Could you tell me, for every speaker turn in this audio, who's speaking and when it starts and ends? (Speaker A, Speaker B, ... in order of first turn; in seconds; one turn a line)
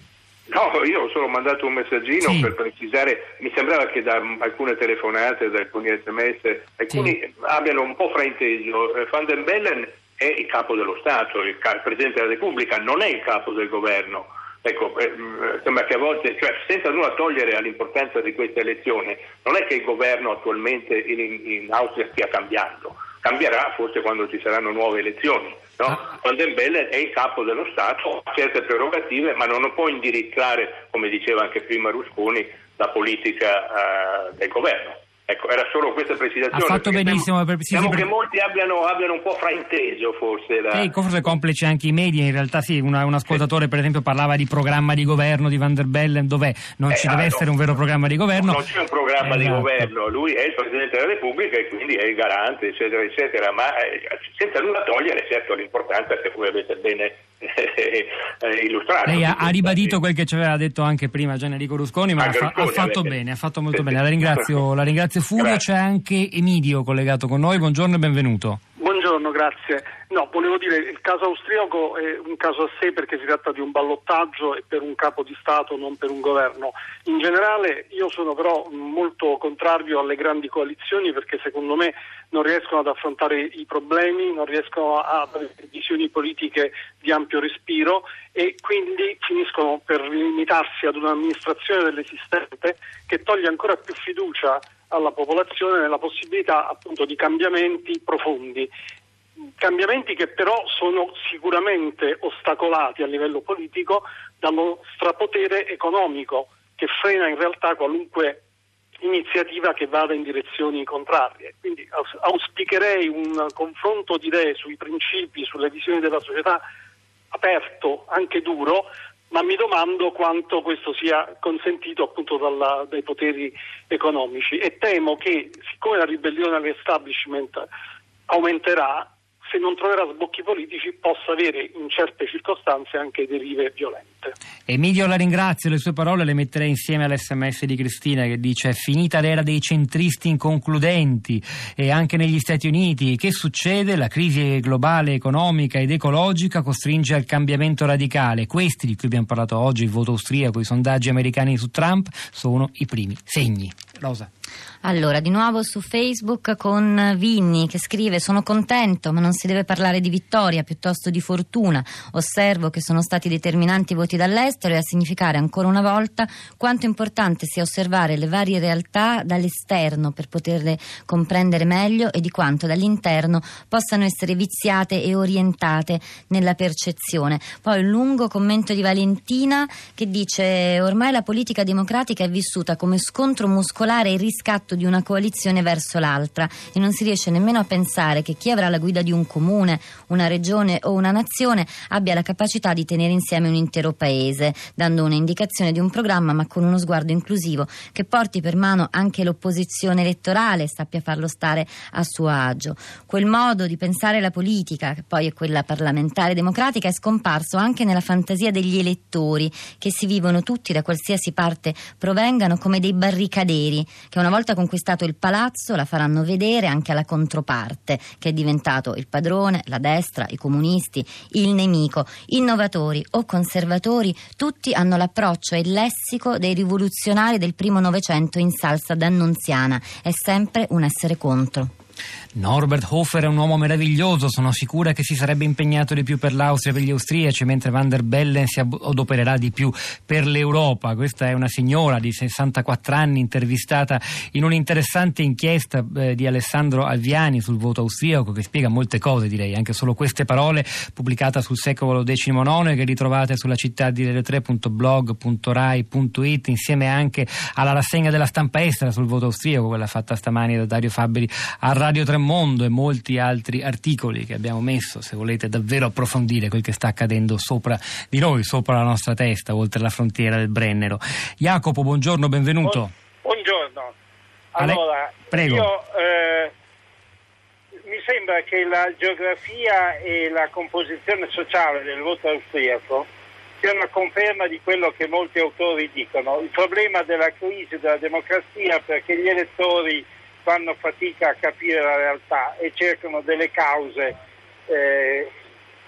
Speaker A: 0.5-40.9
Speaker B: 2.2-2.5
Speaker B: 36.5-38.1
Speaker B: 40.7-48.6
Speaker A: 46.9-47.5
Speaker A: 48.3-59.9
Speaker B: 49.2-49.9
Speaker B: 59.0-68.6
Speaker A: 62.2-63.2
Speaker A: 63.7-64.4
Speaker C: 68.8-98.7
Speaker C: 99.6-108.4
Speaker C: 109.0-116.6
Speaker C: 117.3-127.7
Speaker C: 128.3-134.3
Speaker B: 134.7-154.3
Speaker D: 154.8-231.7
Speaker B: 232.3-272.9
Speaker E: 272.6-273.9
Speaker E: 274.5-276.5
Speaker B: 274.6-275.7
Speaker E: 277.9-283.1
Speaker E: 283.6-294.1
Speaker E: 294.7-295.3